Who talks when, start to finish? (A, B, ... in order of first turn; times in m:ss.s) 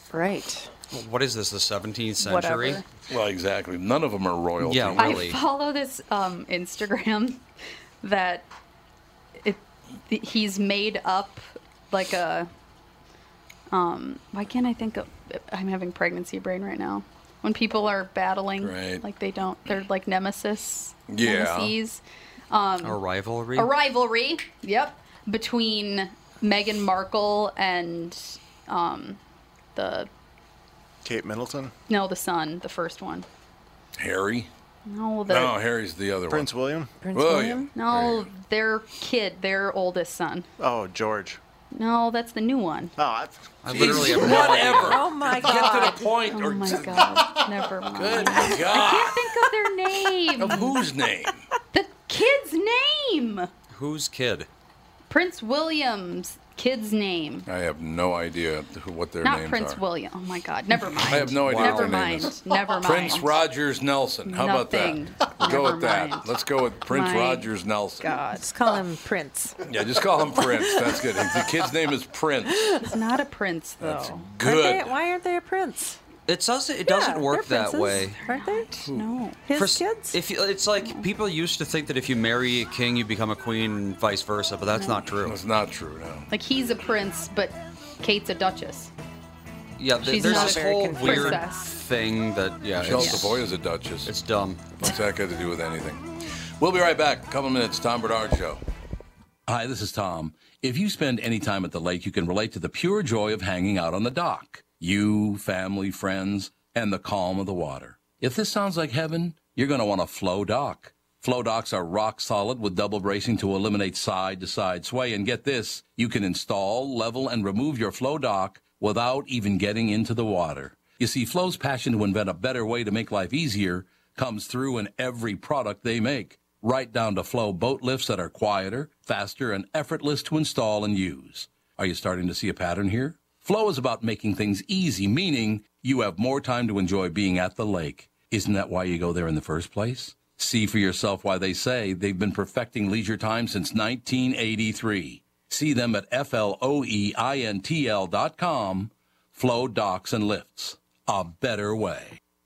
0:00.1-0:00.7 A
0:00.9-0:02.8 B
0:02.2-0:02.8 C
0:03.1-0:05.3 D
0:04.6-0:05.4 B
0:05.0-0:07.4 C
0:08.0-0:08.5 C
0:09.4-0:12.5 C
0:13.7-0:23.0 C
0:18.6-0:19.0 D
0:21.1-0:21.8 D
0:22.8-0:23.7 B
0:23.6-0:29.2 C
0:29.8-0:30.1 C
0:31.0-0:31.7 E
0:31.9-0:33.3 C
0:34.0-0:34.5 D
0:34.9-0:35.5 C
0:35.3-0:36.5 D
0:36.3-0:36.9 E
0:37.0-0:37.7 A
0:37.1-0:38.3 D
0:37.8-0:40.5 C
0:40.6-0:41.4 E
0:41.7-0:43.0 C
0:43.0-0:44.1 E
0:43.6-0:45.0 B
0:43.7-0:47.3 D
0:44.4-0:46.1 A
0:46.3-0:50.7 C
0:47.9-0:49.2 D
0:50.4-0:51.4 D
0:51.7-0:53.5 C
0:53.7-0:54.5 B
0:55.1-0:57.5 C
0:57.5-0:59.8 D
0:59.2-1:03.4 C
1:01.0-1:08.1 D
1:01.1-1:02.0 B
1:04.3-1:06.3 C
1:06.9-1:07.5 C
1:08.0-1:08.4 C
1:08.3-1:09.6 A
1:09.7-1:12.8 D
1:10.4-1:10.9 A
1:12.8-1:14.2 C
1:13.8-1:14.9 D
1:14.4-1:16.0 A
1:16.3-1:18.2 B
1:16.9-1:18.7 A
1:18.3-1:19.4 C
1:18.8-1:19.1 D
1:19.5-1:20.2 A
1:19.5-1:25.4 B
1:20.8-1:21.1 C
1:24.7-1:25.0 C
1:25.2-1:26.3 D
1:26.3-1:28.9 C
1:29.8-1:33.4 B
1:30.0-1:31.7 C
1:30.1-1:31.5 A
1:32.8-1:34.1 D
1:33.0-1:33.2 C
1:34.1-1:34.6 B
1:34.8-1:36.0 D
1:36.6-1:38.6 D
1:39.5-2:32.2 D